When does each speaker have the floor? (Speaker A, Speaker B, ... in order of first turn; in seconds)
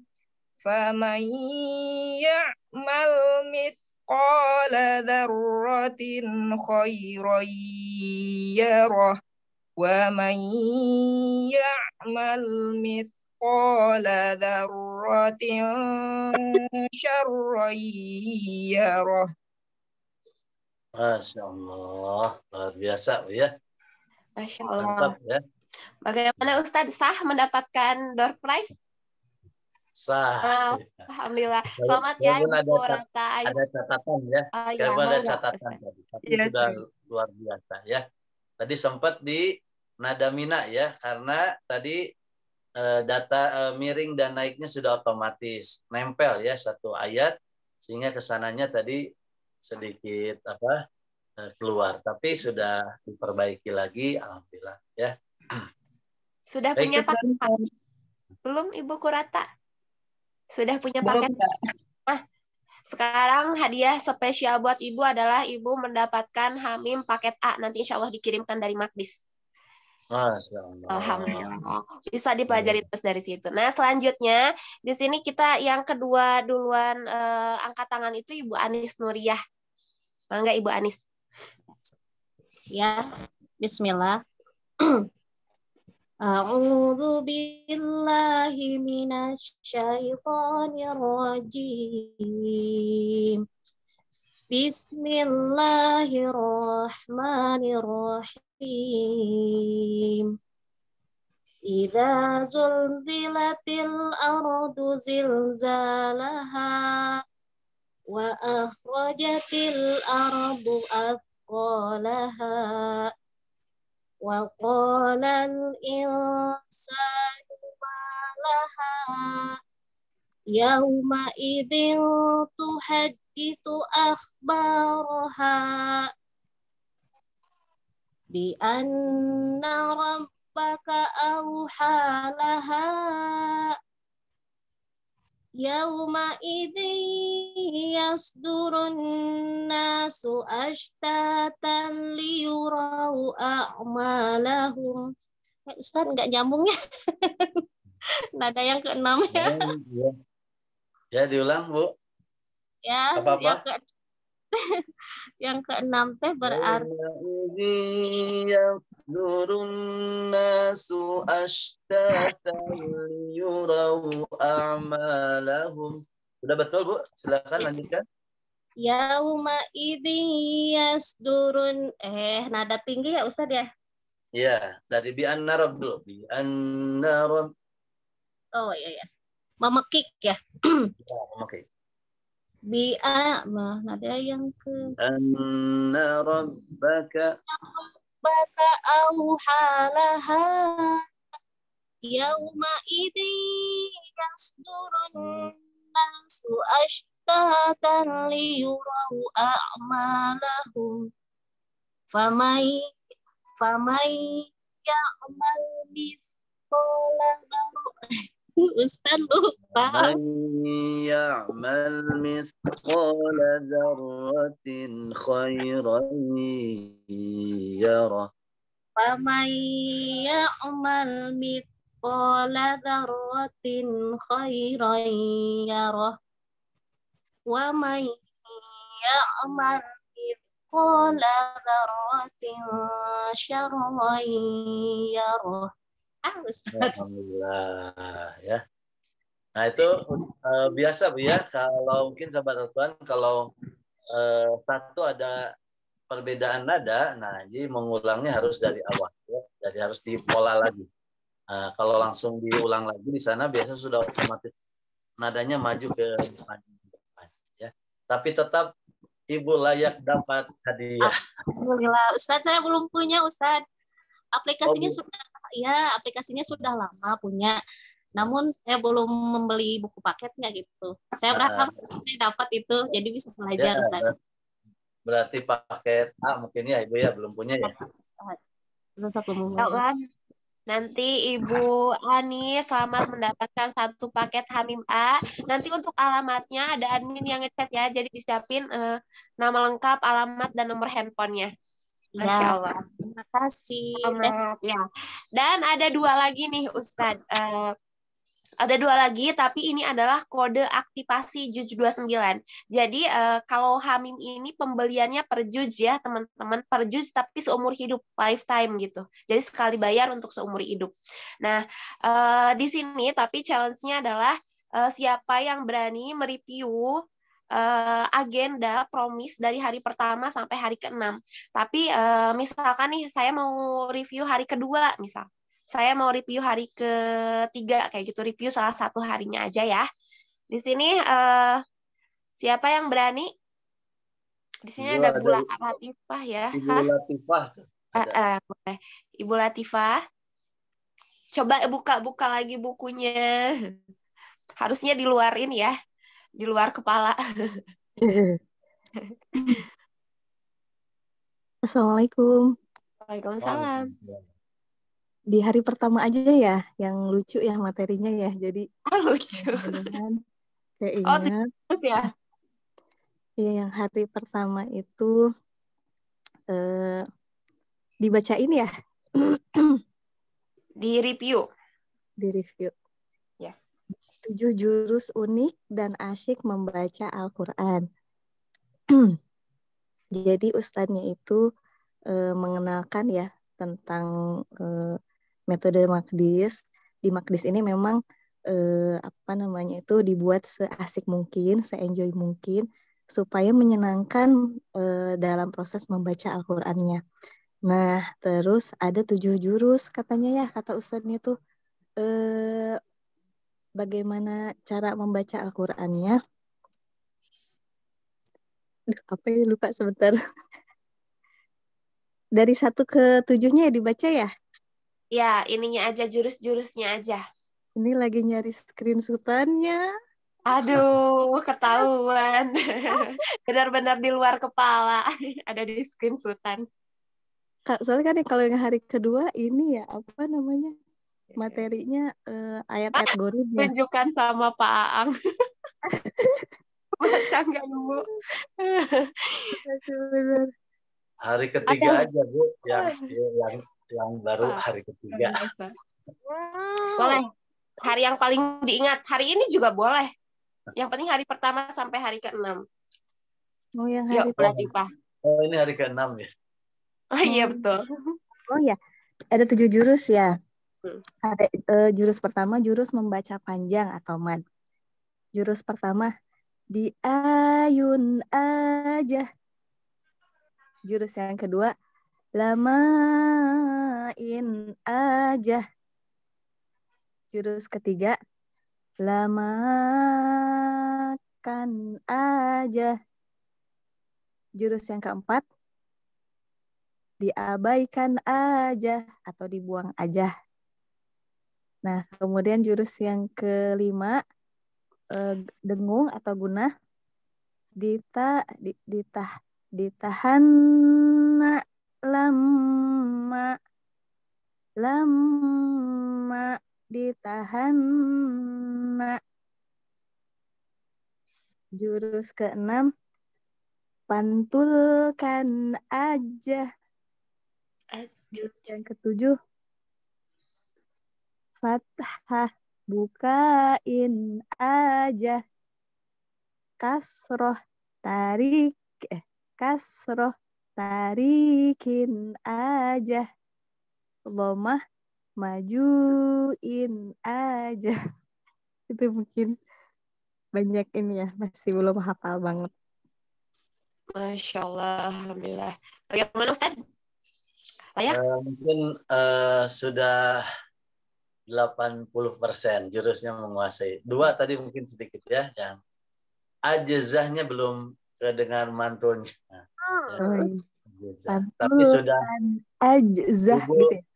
Speaker A: 0.6-9.2, 9.8-19.3, 36.3-36.7, 61.1-61.4
Speaker B: 20.9-23.5, 24.8-25.4, 30.0-31.0, 31.8-38.0, 38.6-39.5, 40.0-42.0, 42.8-49.0, 49.6-50.8, 51.4-55.6, 70.1-71.5, 72.5-72.8, 149.3-150.1, 151.1-151.9, 153.2-153.6, 156.4-168.0, 174.4-177.5, 181.0-181.6, 185.0-187.3, 195.2-195.5, 209.7-218.3, 236.7-238.6, 239.6-243.4, 244.1-245.4, 246.1-250.9, 251.5-254.5, 255.2-258.7, 259.3-261.2, 264.6-265.0, 271.3-271.7, 273.6-274.1, 275.1-277.7, 334.8-335.5, 336.5-338.1, 353.4-354.2, 441.2-445.5, 455.2-456.3, 548.1-550.2, 551.5-555.8, 556.7-560.2, 560.9-562.2, 563.5-563.8
Speaker C: 24.4-25.1, 26.0-28.7, 30.4-33.6, 34.6-35.8, 56.5-57.5, 58.5-59.4, 60.5-61.3, 62.9-69.2, 70.9-79.4, 80.3-81.0, 279.6-279.9, 280.7-291.5, 292.2-292.8, 294.0-294.8, 295.4-297.7, 298.6-316.9, 317.5-326.9, 327.5-329.8, 330.5-331.6, 332.4-333.3, 334.7-336.8, 338.0-339.9, 341.4-343.3, 344.6-345.7, 346.4-347.6, 353.1-353.9, 358.9-359.9, 361.1-362.1, 370.8-371.4, 415.1-417.2, 420.5-426.6, 433.6-435.1, 437.0-438.0, 438.6-439.5, 441.7-442.1, 442.7-443.1, 445.1-445.7, 447.0-447.2, 447.8-450.1, 450.8-452.6, 454.1-454.9, 457.1-457.8, 517.9-518.6, 544.1-546.7, 559.9-560.2
Speaker D: 82.7-83.0, 83.6-84.2, 86.3-93.4, 94.5-100.3, 101.7-106.7, 108.1-113.1, 114.3-119.0, 120.5-122.0, 122.6-126.0, 128.3-133.4, 135.6-138.9, 139.7-145.0, 145.8-146.7, 148.4-149.6, 152.9-153.8, 155.4-156.8, 168.8-173.7, 178.6-179.1, 179.6-180.9, 182.7-184.9, 187.5-191.0, 192.1-201.1, 202.1-202.8, 203.6-207.8, 208.8-210.1, 219.0-226.1, 227.5-235.7, 236.3-237.0, 261.0-263.6, 264.4-267.6, 268.2-274.1, 277.6-278.4, 279.0-279.8, 292.1-294.3
Speaker E: 348.0-348.4, 351.7-352.3, 355.3-358.6, 359.4-360.1, 360.8-361.4, 363.4-365.1, 366.5-367.0, 368.0-368.7, 372.2-372.7, 374.2-377.8, 380.2-381.4, 382.1-384.1, 384.6-384.9, 385.5-388.0, 388.5-392.6, 393.1-394.3, 394.8-397.0, 397.7-401.3, 402.0-402.8, 403.8-406.1, 409.1-410.1, 412.4-414.3, 417.8-419.8, 427.7-430.7, 431.4-433.7, 439.6-440.5, 453.8-454.6, 457.2-457.6, 458.5-458.8, 459.4-460.3, 461.2-464.4, 465.4-466.1, 466.8-469.3, 470.9-471.7, 472.4-473.3, 474.2-475.6, 477.3-478.1, 479.1-480.3, 481.4-482.9, 484.6-485.4, 487.2-490.3, 491.8-494.2, 495.2-496.7, 497.8-499.3, 499.8-500.4, 502.1-503.5, 504.8-507.8, 511.8-512.9, 514.1-516.7, 518.7-519.4, 521.6-525.4, 526.8-533.2, 534.4-534.8, 535.4-538.0, 538.9-539.5, 540.6-542.7, 560.2-560.5, 561.3-564.0